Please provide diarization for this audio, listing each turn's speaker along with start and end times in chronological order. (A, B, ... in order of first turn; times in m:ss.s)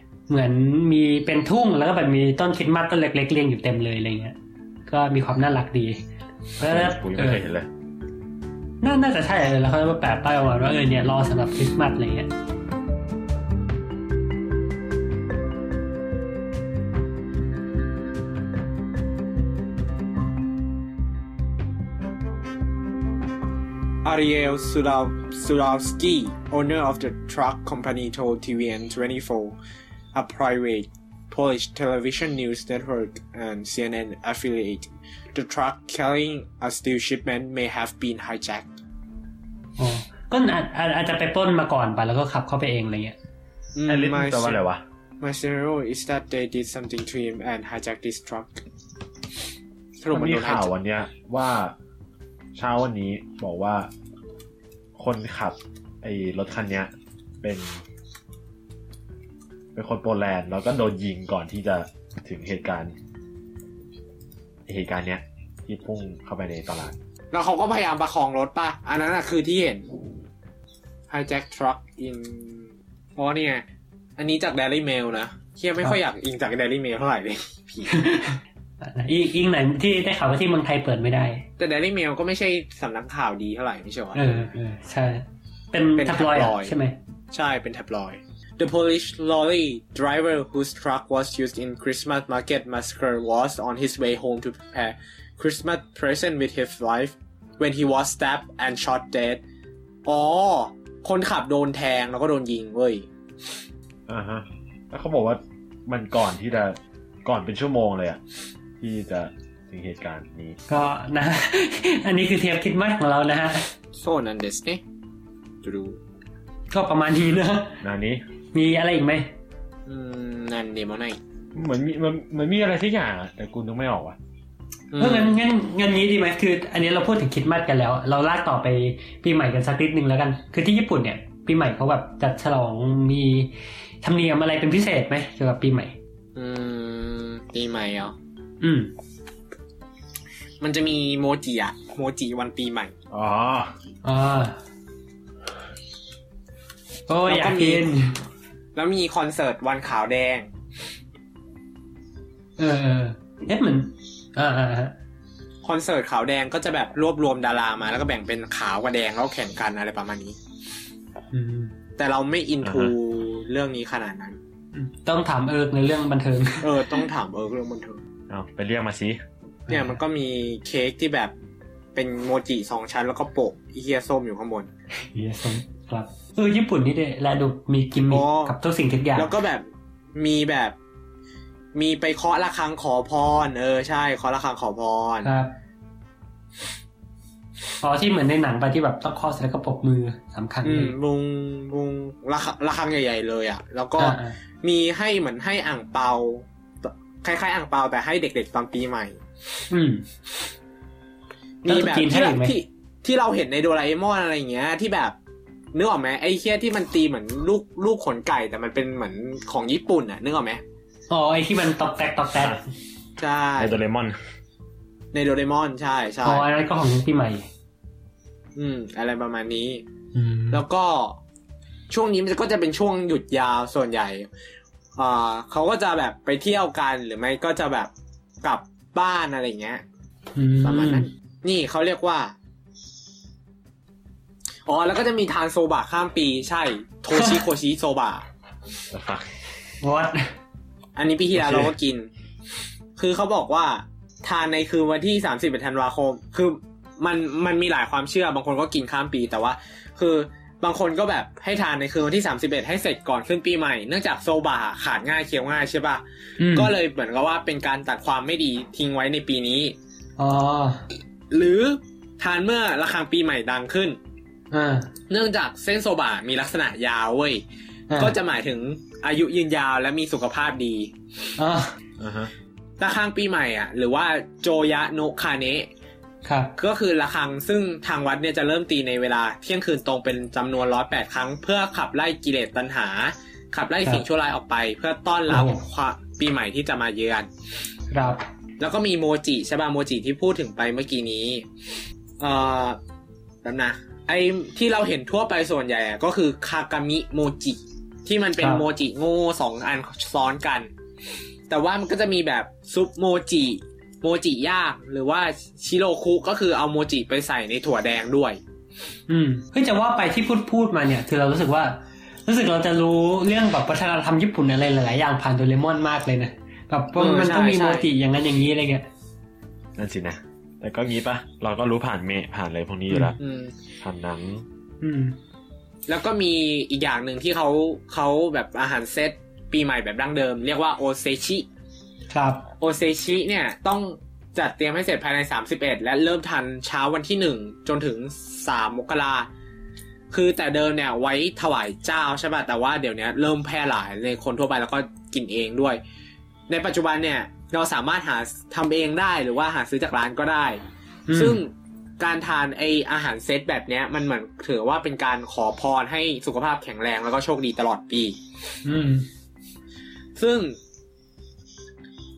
0:00.3-0:04.4 A
0:04.9-0:06.0 A
0:06.6-0:07.4 A
0:06.6-0:07.7 B
0:08.8-0:12.3 A
0:24.0-0:29.6 C
0:30.1-0:38.8 C
0:39.8-0:43.2 A
0:43.7-0:44.6 C
0:43.8-0:44.8 B
0:45.2-0:48.6 C
0:50.0-0:50.7 C
0:50.1-0:51.7 B
0:52.5-0:53.9 B
0:55.0-0:57.8 B
0:59.7-1:02.9 B
1:04.7-1:07.0 B
1:07.3-1:09.9 C
1:11.1-1:13.6 C
1:14.2-1:18.0 C
1:17.9-1:21.4 A
1:21.6-1:24.2 C
1:24.1-1:27.0 A
1:26.0-1:26.7 C
1:27.3-1:39.4 C
1:40.0-1:43.0 C
1:44.1-1:48.2 B
1:48.8-1:50.6 B
1:50.7-1:53.7 A
1:54.0-1:54.8 C
1:55.6-1:56.0 C
1:56.7-1:57.8 A
1:57.8-1:58.2 B
1:58.5-1:59.3 A
1:59.9-2:01.2 C
2:01.5-2:04.2 B
2:04.9-2:05.4 C
2:05.0-2:15.9 A
2:16.4-2:18.1 C
2:18.6-2:18.9 A
2:20.6-2:22.9 C
2:23.1-2:23.7 B
2:24.0-2:24.6 A
2:27.1-2:28.2 A
2:27.3-2:27.9 C
2:28.7-2:30.5 C
2:32.6-2:34.9 A
2:35.6-2:40.4 C
2:41.3-2:41.7 A
2:42.0-2:44.4 C
2:42.6-2:42.9 B
2:44.7-2:47.0 A
2:46.6-2:48.0 C
2:48.3-2:49.2 B
2:49.7-2:50.0 A
2:49.7-2:51.3 C
2:51.9-2:54.7 C
2:55.1-2:59.3 A
2:58.1-2:58.5 C
2:59.2-3:00.8 C
3:01.7-3:05.3 C
3:05.2-3:05.5 A
3:07.8-3:10.9 A
3:10.6-3:19.2 C
3:14.0-3:14.4 A
3:19.7-3:20.0 A
3:21.6-3:25.2 C
3:21.6-3:22.6 A
3:25.7-3:30.6 C
3:31.1-3:32.6 A
3:33.2-3:33.8 C
3:33.6-3:34.2 B
3:35.1-3:36.4 C
3:36.2-3:37.4 A
3:38.6-3:39.8 C
3:40.1-3:40.6 A
3:40.5-3:41.2 C
3:41.9-3:44.3 C
3:45.0-3:47.9 C
3:48.4-3:49.8 C
3:50.4-3:51.1 A
3:50.6-3:52.3 C
3:54.6-3:58.2 C
3:57.1-3:57.4 A
3:58.9-3:59.3 B
3:59.8-4:00.3 A
4:01.0-4:02.1 C
4:01.3-4:01.7 B
4:03.0-4:19.8 C
4:16.4-4:16.7 A
4:20.2-4:20.8 A
4:21.3-4:24.0 C
4:24.5-4:24.9 A
4:25.1-4:27.4 C
4:27.9-4:28.1 A
4:28.0-4:30.9 C
4:31.4-4:31.7 A
4:32.0-4:32.3 B
4:32.8-4:35.7 C
4:36.2-4:36.5 A
4:36.6-4:47.3 C
4:45.3-4:45.6 A
4:47.9-4:48.2 A
4:48.6-4:51.4 C
4:52.2-4:52.8 C
4:53.4-5:00.7 C
4:58.4-4:58.6 A
5:01.5-5:08.4 C
5:09.1-5:18.8 A
5:17.0-5:17.9 C
5:19.8-5:23.2 B
5:22.9-5:23.2 A
5:23.2-5:23.5 C
5:23.8-5:24.5 B
5:24.8-5:25.2 A
5:25.9-5:31.5 C
5:32.1-5:32.4 A
5:32.6-5:39.3 C
5:40.1-5:45.8 C
5:46.5-5:50.6 C
5:51.1-5:51.4 A
5:51.1-5:58.2 C
5:58.6-5:59.1 A
6:00.2-6:00.6 C